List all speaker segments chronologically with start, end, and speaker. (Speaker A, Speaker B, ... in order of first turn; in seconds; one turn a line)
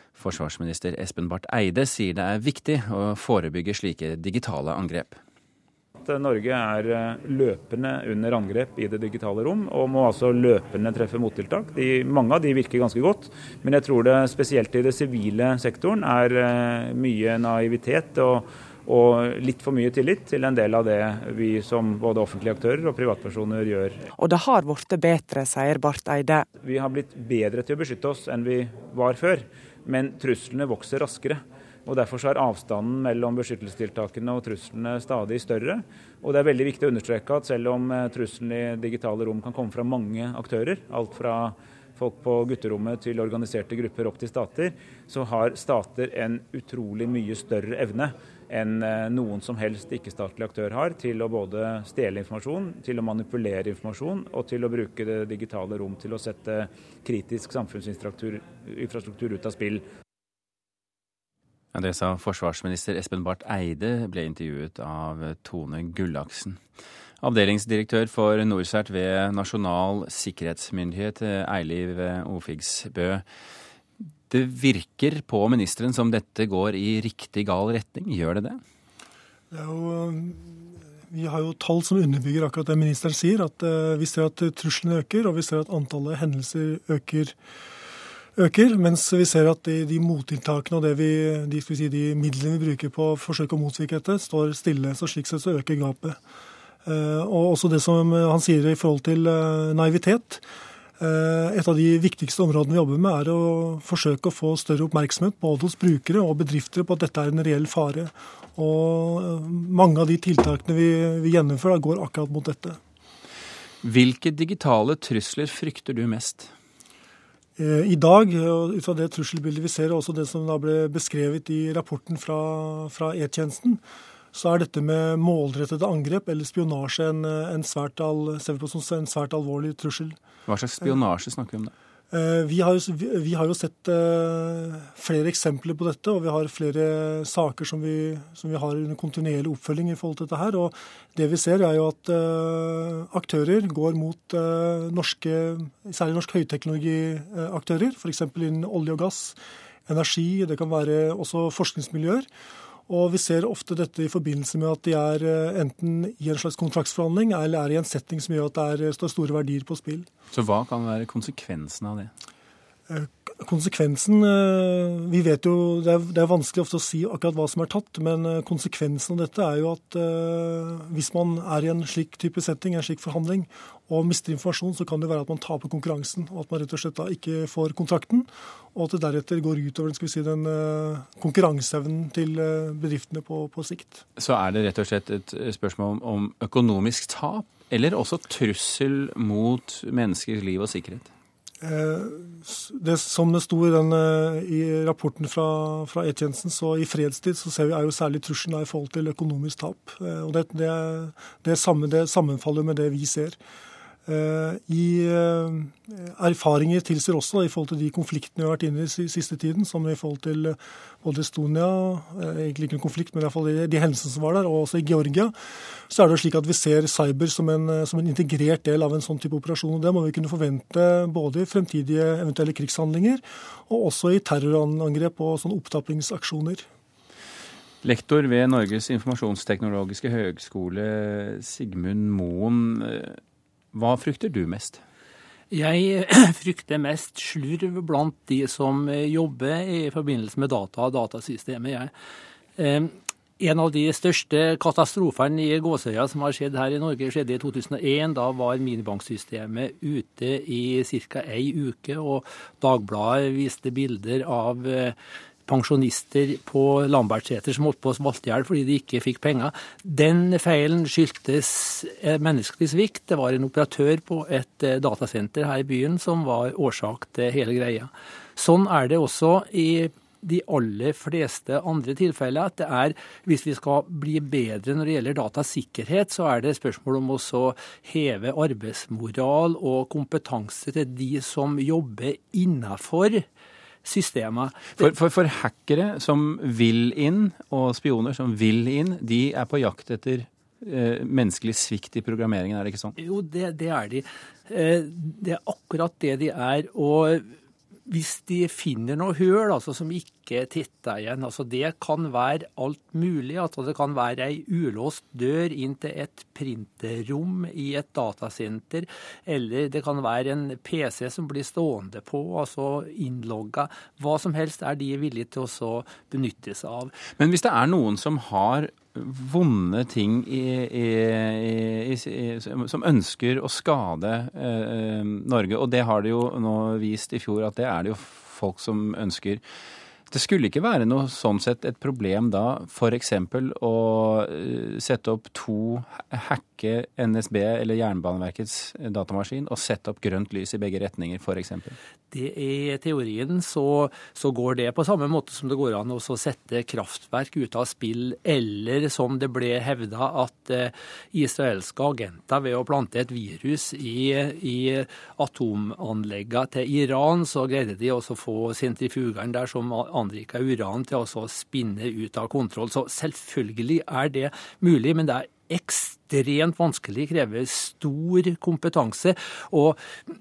Speaker A: 0.1-5.2
Speaker B: 6.0-24.0
Speaker C: 24.2-26.5
Speaker B: 26.6-59.8
Speaker A: 61.7-66.6
Speaker A: 67.2-73.2
Speaker A: 74.3-78.6
Speaker D: 79.5-87.3
Speaker D: 88.4-96.2
Speaker D: 96.8-100.4
Speaker D: 101.0-112.8
Speaker A: 113.8-116.5
Speaker D: 117.6-123.8
Speaker D: 124.3-130.2
Speaker A: 130.5-131.7
Speaker D: 132.1-152.3
Speaker D: 152.9-160.1
Speaker A: 160.3-162.1
Speaker D: 162.9-184.0
Speaker A: 184.2-191.1
Speaker D: 191.6-203.4
Speaker D: 204.1-215.3
Speaker D: 215.9-226.7
Speaker A: 227.8-233.2
Speaker A: 233.7-234.8
Speaker E: 235.5-241.9
Speaker E: 242.6-254.9
Speaker E: 255.5-283.2
Speaker E: 283.8-284.9
Speaker A: 284.8-292.9
Speaker E: 293.0-297.2
Speaker E: 297.9-316.9
Speaker A: 317.2-329.4
Speaker A: 330.1-341.8
Speaker E: 342.1-369.8